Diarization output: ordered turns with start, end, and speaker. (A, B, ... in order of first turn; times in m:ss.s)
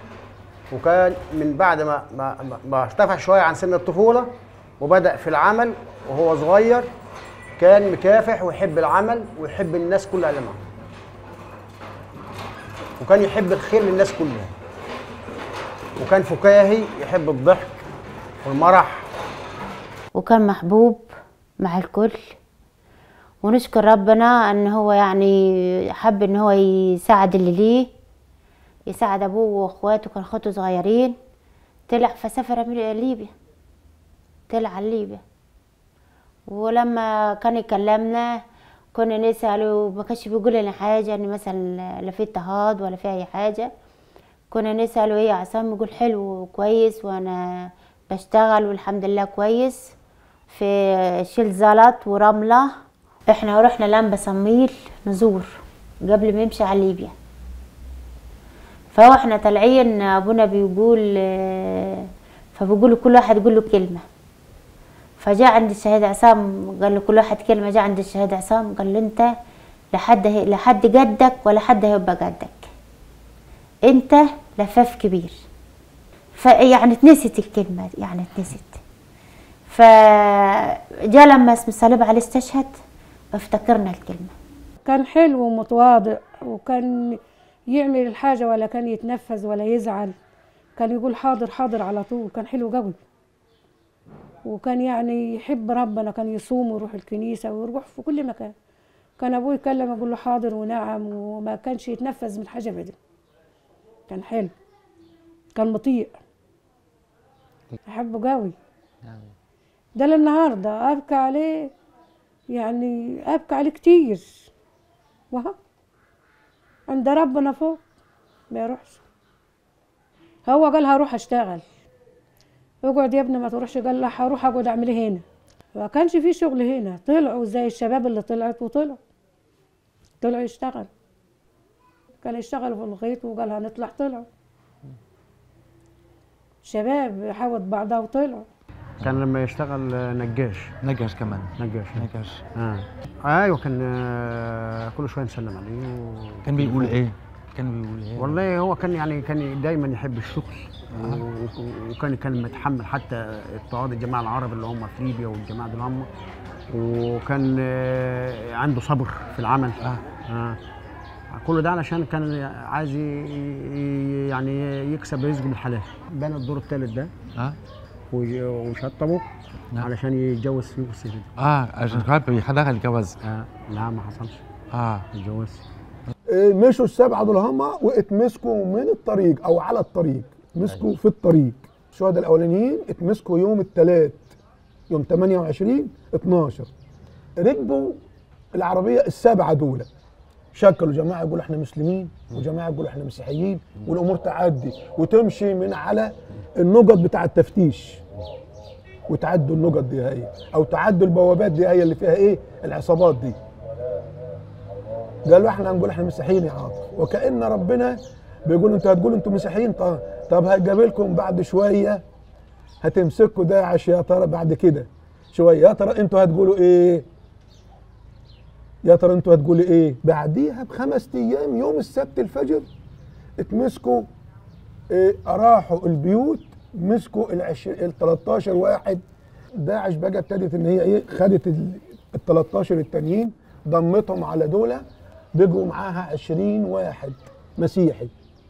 0:00.7-0:06.9 A
0:07.6-0:10.7 A
0:13.0-0:14.5 A
0:16.0-0:17.8 A
0:18.4-0:19.1 A
0:20.1-0:21.0 B
0:21.6-0:22.2 B
0:23.4-0:27.9 B
0:28.9-0:31.1 B
0:31.9-0:33.3 B
0:34.5-0:35.2 B
0:36.5-0:38.4 B
0:38.9-0:43.7 B
0:44.5-0:49.8 B
0:50.5-0:52.7 B
0:53.3-0:55.5 B
0:56.0-0:57.1 B
0:58.9-1:02.0 B
1:02.6-1:04.0 B
1:05.2-1:09.3 B
1:09.9-1:12.6 B
1:13.9-1:15.3 B
1:16.4-1:18.8 B
1:19.7-1:22.7 B
1:23.3-1:24.3 B
1:24.8-1:27.2 C
1:27.7-1:30.2 C
1:30.8-1:33.0 C
1:34.4-1:38.5 C
1:39.2-1:43.0 C
1:44.1-1:44.5 C
1:45.5-1:46.2 C
1:47.8-1:48.5 C
1:49.0-1:49.3 D
1:50.0-1:51.7 C
1:52.5-1:54.4 C
1:56.9-1:57.8 C
1:58.5-1:59.0 C
2:00.4-2:01.6 C
2:02.8-2:05.2 C
2:05.7-2:09.0 C
2:10.2-2:10.9 C
2:12.2-2:14.2 C
2:16.6-2:18.5 C
2:19.0-2:20.7 A
2:20.8-2:22.4 D
2:21.6-2:22.0 A
2:22.6-2:27.0 A
2:26.4-2:28.4 D
2:28.2-2:36.1 A
2:30.9-2:31.2 D
2:36.7-2:39.8 A
2:40.3-2:40.6 A
2:41.3-2:47.1 A
2:48.1-2:49.2 A
2:49.8-2:51.3 A
2:51.4-2:53.2 D
2:53.2-2:54.4 A
2:54.7-2:55.1 D
2:55.1-2:55.6 A
2:56.3-3:04.3 E
3:04.9-3:06.7 E
3:07.4-3:08.0 E
3:08.5-3:09.9 E
3:10.5-3:18.0 E
3:19.1-3:23.4 E
3:25.2-3:32.0 E
3:32.8-3:37.0 E
3:38.8-3:42.7 E
3:43.4-3:44.1 E
3:44.9-3:49.0 E
3:49.6-3:58.1 E